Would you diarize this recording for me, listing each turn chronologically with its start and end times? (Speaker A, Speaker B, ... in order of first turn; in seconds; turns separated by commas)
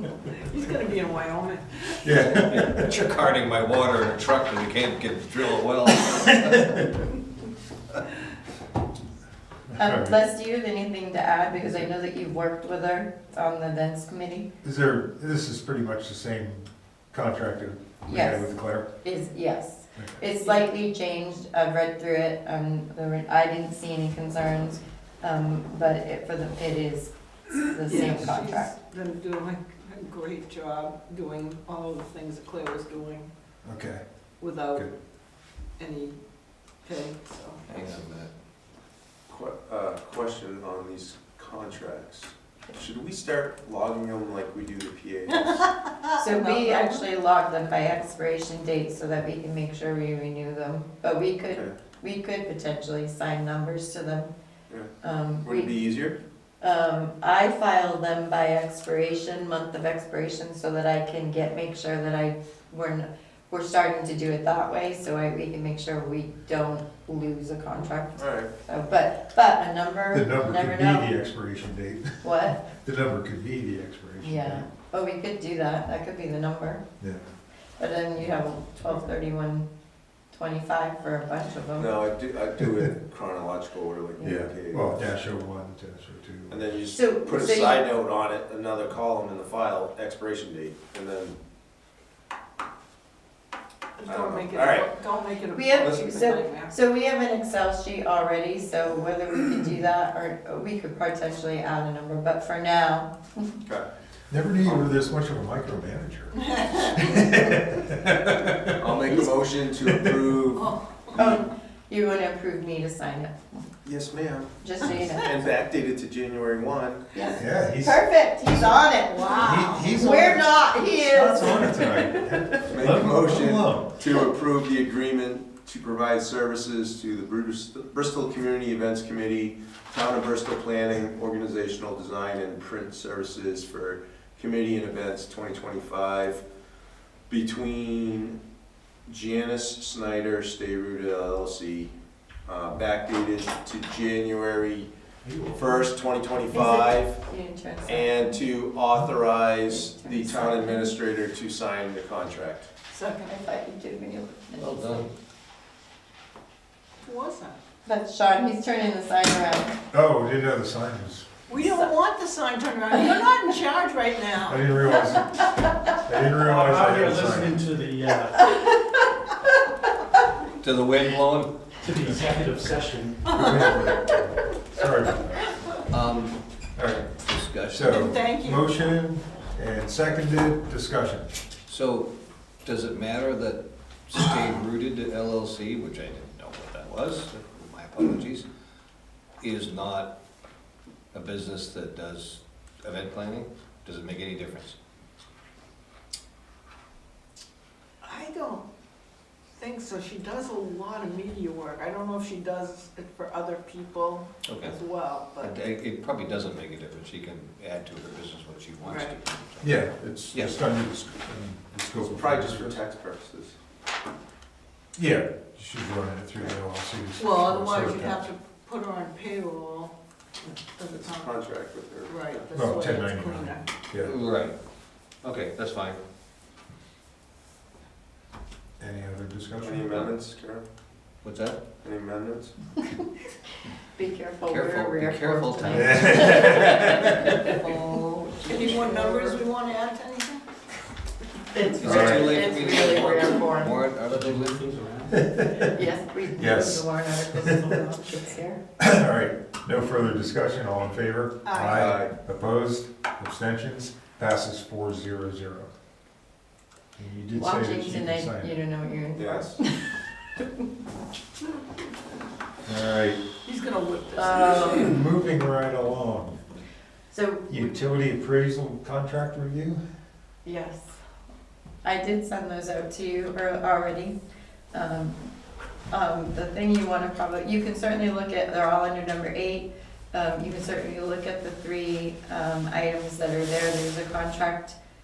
Speaker A: 0.4-2.1, Speaker B: 2.0-2.9, Speaker C: 2.2-6.8, Speaker B: 9.8-10.2, Speaker D: 9.8-14.5, Speaker B: 14.6-18.9, Speaker D: 18.1-28.7, Speaker A: 20.4-20.8, Speaker A: 27.8-33.3, Speaker B: 33.6-34.0, Speaker A: 34.4-34.9, Speaker A: 35.8-36.2, Speaker A: 36.8-37.9, Speaker C: 37.7-38.3, Speaker E: 39.3-45.6, Speaker A: 45.3-47.0, Speaker D: 46.2-54.3, Speaker D: 55.0-55.8, Speaker E: 55.4-56.2, Speaker D: 56.6-71.1, Speaker E: 68.2-68.5, Speaker B: 70.1-74.6, Speaker D: 72.2-72.7, Speaker D: 74.2-76.8, Speaker D: 77.8-79.7, Speaker D: 80.3-82.0, Speaker E: 81.8-85.1, Speaker D: 84.2-84.4, Speaker B: 84.2-86.6, Speaker E: 86.5-91.4, Speaker D: 86.9-87.8, Speaker A: 94.0-96.7, Speaker E: 94.0-94.9, Speaker D: 95.5-103.5, Speaker E: 95.8-96.1, Speaker B: 104.3-109.2, Speaker A: 106.4-107.0, Speaker E: 108.8-111.3, Speaker B: 109.8-110.2, Speaker A: 110.5-111.2, Speaker D: 111.1-113.7, Speaker E: 113.8-117.1, Speaker D: 114.6-115.3, Speaker D: 117.1-122.7, Speaker B: 117.3-118.0, Speaker A: 119.0-120.1, Speaker B: 119.4-123.9, Speaker E: 122.7-136.4, Speaker E: 137.3-138.4, Speaker E: 139.1-141.9, Speaker E: 142.4-144.9, Speaker B: 145.2-145.8, Speaker E: 145.5-147.2, Speaker D: 146.5-148.4, Speaker E: 147.8-152.7, Speaker D: 149.4-150.9, Speaker A: 152.9-153.4, Speaker D: 153.2-155.1, Speaker C: 154.6-155.1, Speaker A: 157.0-157.6, Speaker D: 157.8-159.8, Speaker B: 159.9-161.2, Speaker A: 161.5-165.1, Speaker D: 161.5-161.9, Speaker B: 164.4-167.6, Speaker F: 166.4-168.5, Speaker C: 170.6-171.5, Speaker F: 171.8-173.4, Speaker B: 173.2-175.6, Speaker A: 173.2-173.6, Speaker C: 175.9-176.4, Speaker B: 176.8-177.1, Speaker C: 177.2-178.0, Speaker B: 177.7-181.3, Speaker A: 177.8-178.8, Speaker C: 181.7-182.1, Speaker C: 182.6-188.4, Speaker C: 189.4-190.1, Speaker C: 191.1-194.7, Speaker A: 198.0-198.6, Speaker A: 199.6-205.6, Speaker C: 204.4-204.8, Speaker C: 205.4-210.5, Speaker A: 208.8-209.1, Speaker B: 209.6-212.7, Speaker E: 212.0-213.5, Speaker B: 214.9-218.2, Speaker A: 217.2-221.3, Speaker E: 220.9-222.4, Speaker A: 222.1-223.7, Speaker B: 222.5-224.1, Speaker C: 224.0-224.5, Speaker C: 225.2-226.0, Speaker B: 228.8-230.1, Speaker E: 229.6-230.7, Speaker C: 231.2-231.6, Speaker E: 231.8-232.5, Speaker D: 233.9-239.4, Speaker C: 234.5-237.5, Speaker B: 235.7-237.3, Speaker C: 238.3-238.9, Speaker A: 238.4-240.4, Speaker D: 241.5-243.8, Speaker C: 241.8-244.7, Speaker B: 241.8-242.5, Speaker F: 244.1-245.2, Speaker B: 245.1-245.7, Speaker D: 245.6-248.6, Speaker B: 246.3-247.6, Speaker B: 248.8-255.7, Speaker A: 251.4-251.8, Speaker E: 251.7-252.1, Speaker B: 257.0-258.5, Speaker D: 257.3-259.9, Speaker E: 259.1-259.6, Speaker B: 262.6-263.2, Speaker A: 263.4-265.0, Speaker D: 264.1-265.0, Speaker B: 264.8-266.4, Speaker D: 267.1-268.0, Speaker B: 267.5-269.8, Speaker D: 270.4-270.9, Speaker D: 271.8-274.1, Speaker D: 274.7-275.3, Speaker D: 275.9-284.8